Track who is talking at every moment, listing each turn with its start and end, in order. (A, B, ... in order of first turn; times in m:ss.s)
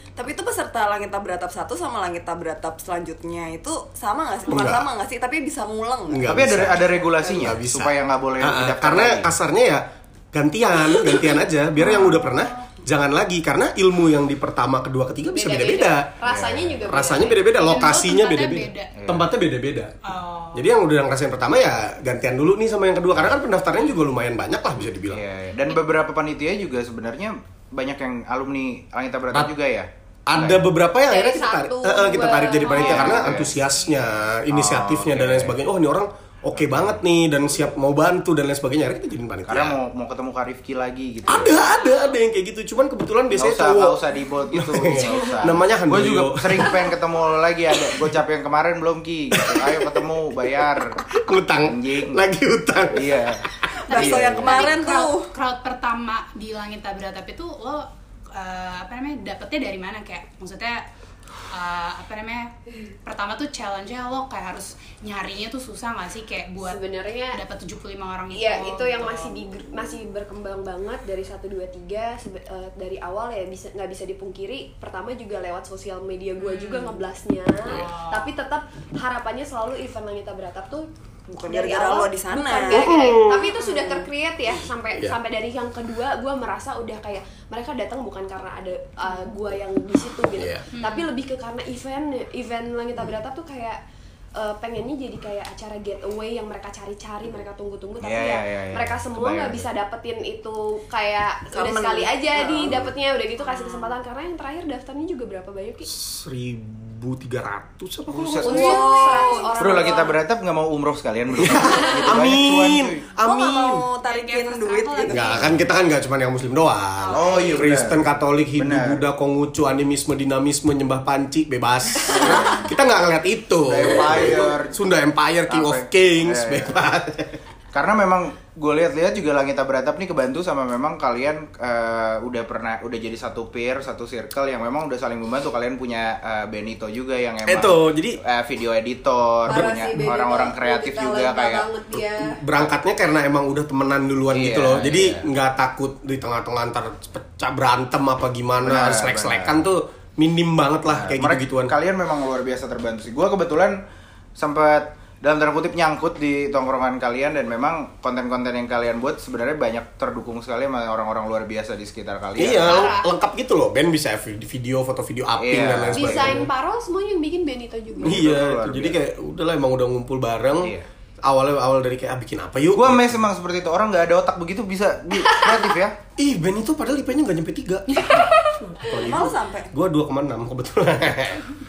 0:00.2-0:06.4 A
0:04.5-0:04.9 B
0:06.1-0:16.1 B
0:06.2-0:09.3 C
0:11.8-0:12.1 C
0:12.1-0:12.7 D
0:15.3-0:17.5 E
0:16.2-0:16.8 C
0:16.8-0:19.9 B
0:17.6-0:18.9 D
0:18.9-0:19.3 C
0:20.0-0:20.7 D
0:20.5-0:25.2 B
0:25.1-0:30.6 C
0:30.2-0:39.8 B
0:31.1-0:33.3 E
0:32.7-0:33.5 C
0:33.4-0:34.1 D
0:34.5-0:35.6 C
0:36.5-0:37.0 C
0:39.5-0:41.6 C
0:41.2-0:44.0 B
0:43.4-0:51.0 C
0:44.5-0:46.8 B
0:49.4-0:50.0 B
0:50.8-0:53.3 B
0:51.6-0:52.2 C
0:52.9-0:54.7 C
0:53.8-0:55.3 A
0:53.9-1:00.8 D
1:01.5-1:02.5 D
1:03.0-1:09.4 D
1:06.6-1:07.4 E
1:08.3-1:20.9 E
1:16.4-1:17.0 D
1:17.6-1:18.3 D
1:21.3-1:23.0 A
1:21.4-1:33.8 E
1:22.7-1:23.6 B
1:23.7-1:24.0 A
1:30.4-1:30.6 B
1:30.7-1:31.1 D
1:34.4-1:45.9 E
1:38.0-1:39.7 C
1:41.5-1:42.8 A
1:43.6-1:43.9 D
1:45.9-1:48.8 B
1:48.1-1:48.8 C
1:48.4-1:50.2 E
1:48.5-1:49.6 A
1:49.6-1:53.1 C
1:51.4-1:53.9 B
1:53.2-1:55.6 A
1:54.0-1:55.6 D
1:55.0-2:07.4 B
1:57.1-1:57.4 A
1:57.1-1:58.0 C
1:58.6-1:59.0 C
2:02.0-2:02.7 C
2:03.6-2:04.8 C
2:05.5-2:06.8 C
2:07.7-2:21.7 C
2:17.4-2:18.2 B
2:19.5-2:22.4 E
2:19.5-2:20.2 A
2:22.1-2:31.7 B
2:24.3-2:25.2 C
2:28.6-2:29.6 C
2:30.9-2:33.8 C
2:34.4-2:42.9 C
2:42.4-2:46.5 B
2:42.6-2:43.1 E
2:45.4-2:46.4 C
2:45.9-2:48.3 E
2:48.0-2:49.0 C
2:48.0-2:53.3 B
2:52.7-2:56.0 C
2:56.2-2:58.3 B
2:58.8-2:59.7 A
2:58.9-3:01.5 B